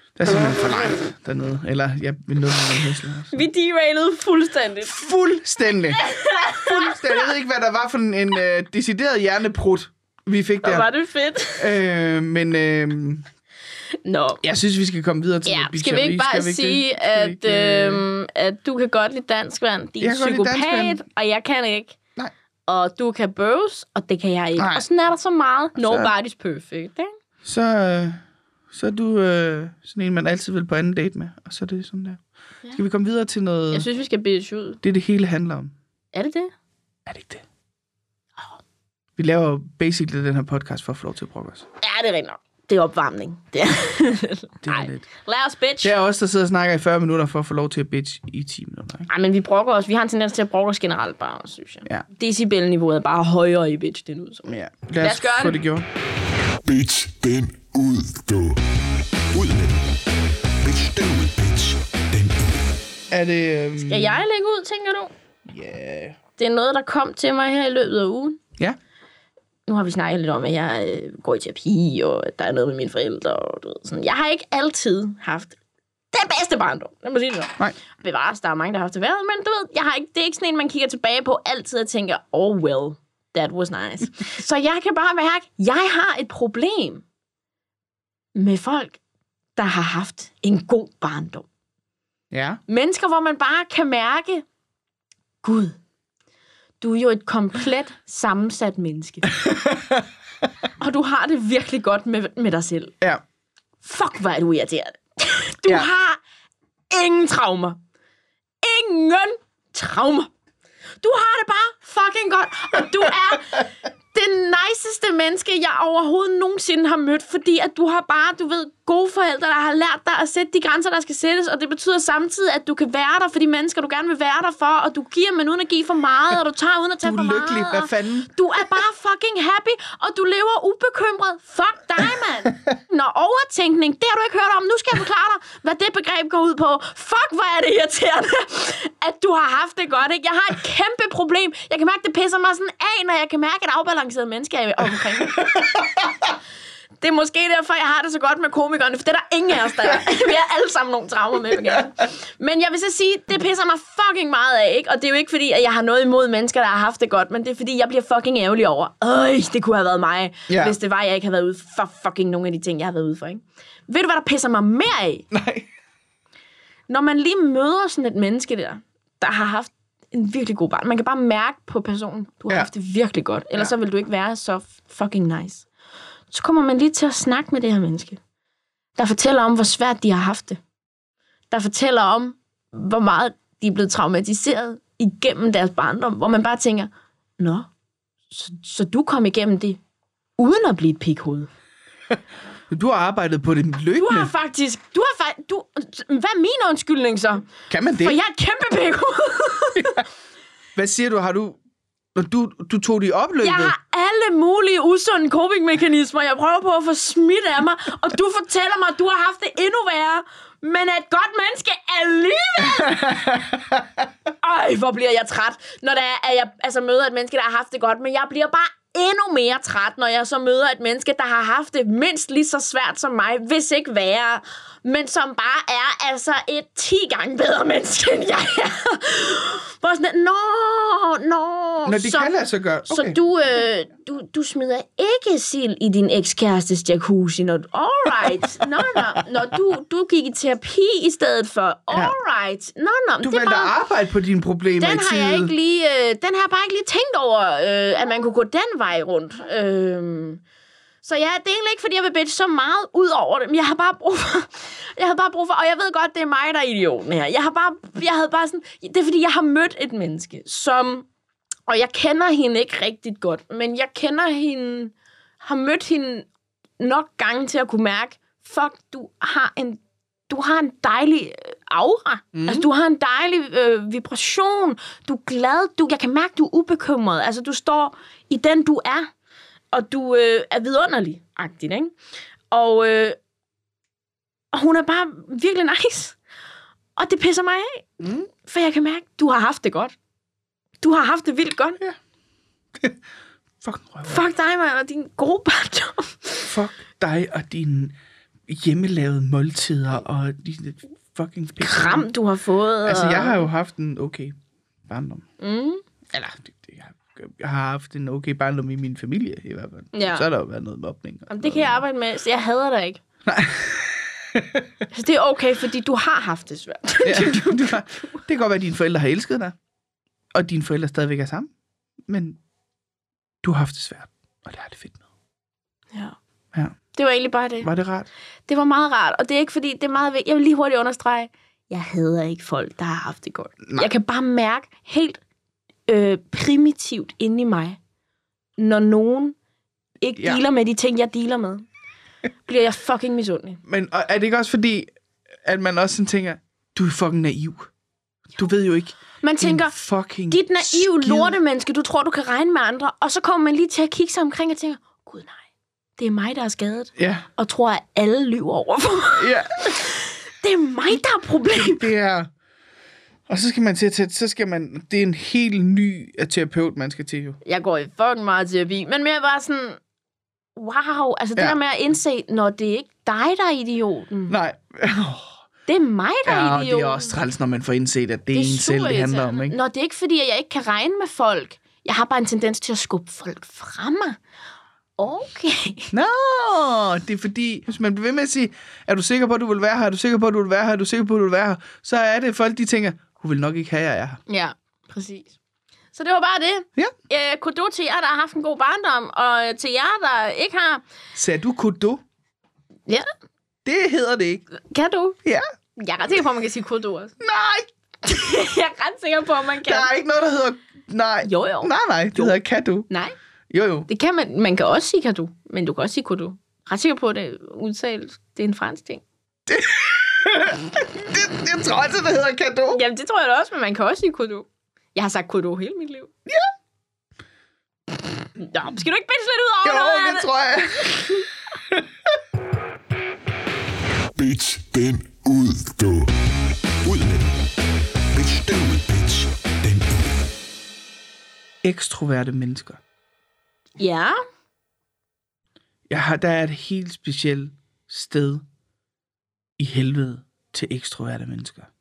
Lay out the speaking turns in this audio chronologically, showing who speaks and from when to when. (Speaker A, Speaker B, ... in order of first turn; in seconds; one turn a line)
Speaker A: 0.1-3.3
Speaker B: 3.3-5.0
Speaker A: 4.8-10.9
Speaker B: 6.0-7.2
Speaker B: 10.6-11.7
Speaker A: 11.6-13.2
Speaker B: 14.0-14.4
Speaker A: 14.4-18.0
Speaker B: 15.4-22.0
Speaker A: 20.0-21.0
Speaker B: 22.7-27.1
Speaker A: 24.6-24.8
Speaker A: 25.8-26.1
Speaker A: 27.4-28.2
Speaker A: 28.7-32.2
Speaker A: 32.7-33.9
Speaker B: 33.7-34.8
Speaker A: 34.8-35.7
Speaker B: 36.1-36.5
Speaker A: 37.0-37.4
Speaker A: 39.2-41.7
Speaker B: 41.8-45.9
Speaker A: 44.6-45.0
Speaker A: 45.8-49.1
Speaker B: 49.1-55.6
Speaker A: 54.5-55.9
Speaker C: 56.6-58.6
Speaker C: 59.3-59.9
Speaker C: 60.6-62.8
Speaker A: 63.1-64.2
Speaker B: 63.8-65.1
Speaker A: 65.5-66.2
Speaker B: 66.4-68.4
Speaker B: 69.7-75.6
Speaker B: 76.1-87.0
Speaker B: 88.3-89.0
Speaker B: 89.5-91.5
Speaker A: 92.3-92.6
Speaker B: 92.7-94.4
Speaker B: 95.4-95.8
Speaker B: 96.8-99.3
Speaker A: 99.4-100.0
Speaker B: 100.8-103.0
Speaker B: 103.8-106.2
Speaker B: 106.9-107.8
Speaker B: 108.6-110.3
Speaker B: 111.0-145.6
Speaker A: 127.0-128.3
Speaker A: 145.5-145.8
Speaker B: 147.0-165.3
Speaker A: 160.5-160.8
Speaker A: 165.3-165.7
Speaker B: 166.9-175.7
Speaker B: 176.3-178.2
Speaker B: 179.0-180.6
Speaker B: 181.5-187.7
Speaker B: 188.3-189.8
Speaker B: 190.4-191.5
Speaker A: 192.7-194.3
Speaker B: 194.0-200.0
Speaker A: 197.7-198.2
Speaker A: 200.8-201.6
Speaker A: 202.1-203.7
Speaker B: 203.4-213.2
Speaker A: 212.8-213.8
Speaker B: 214.4-232.3
Speaker A: 231.8-233.2
Speaker B: 232.9-243.7
Speaker A: 243.2-245.5
Speaker B: 244.8-250.4
Speaker B: 251.0-261.1
Speaker B: 261.7-266.3
Speaker B: 266.8-279.1
Speaker A: 272.3-272.7
Speaker B: 279.7-281.9
Speaker B: 282.5-283.2
Speaker B: 284.5-286.2
Speaker B: 286.9-289.9
Speaker A: 288.0-288.3
Speaker B: 290.8-291.8
Speaker A: 293.6-294.2
Speaker B: 294.0-296.5
Speaker A: 296.4-297.9
Speaker A: 298.5-302.1
Speaker B: 301.6-303.4
Speaker A: 302.8-304.3
Speaker A: 304.9-305.2
Speaker B: 305.4-305.8
Speaker A: 306.1-311.8
Speaker B: 309.9-310.3
Speaker B: 311.3-313.0
Speaker A: 313.2-314.6
Speaker B: 314.9-318.2
Speaker A: 317.0-319.6
Speaker A: 320.3-321.5
Speaker A: 322.1-322.4
Speaker A: 323.4-325.0
Speaker B: 326.9-327.7
Speaker A: 327.6-328.1
Speaker B: 328.5-335.2
Speaker B: 335.9-337.8
Speaker B: 338.6-339.4
Speaker B: 340.0-341.6
Speaker B: 342.4-343.6
Speaker A: 343.7-344.9
Speaker A: 345.4-347.7
Speaker A: 348.4-351.4
Speaker B: 349.2-349.8
Speaker B: 350.3-355.4
Speaker B: 356.0-361.9
Speaker A: 357.0-357.3
Speaker A: 359.1-359.5
Speaker A: 361.6-362.3
Speaker A: 363.3-367.4
Speaker B: 367.4-369.8
Speaker B: 370.6-374.4
Speaker A: 374.3-375.4
Speaker B: 375.7-377.1
Speaker A: 376.2-379.6
Speaker B: 378.3-384.2
Speaker B: 385.0-385.9
Speaker A: 385.9-394.2
Speaker B: 394.3-395.4
Speaker B: 395.9-400.8
Speaker A: 401.1-402.0
Speaker A: 403.6-404.4
Speaker B: 404.6-405.2
Speaker B: 405.8-407.1
Speaker A: 407.2-407.7
Speaker B: 408.0-409.9
Speaker A: 409.6-412.9
Speaker B: 411.2-412.4
Speaker B: 412.9-413.1
Speaker A: 413.5-413.9
Speaker B: 413.9-419.0
Speaker A: 419.5-422.8
Speaker B: 422.7-426.1
Speaker B: 428.4-430.3
Speaker A: 429.6-431.9
Speaker C: 434.1-436.1
Speaker C: 436.8-437.4
Speaker C: 438.1-440.3
Speaker A: 441.6-442.8
Speaker B: 443.8-444.2
Speaker A: 445.9-448.4
Speaker A: 449.6-451.7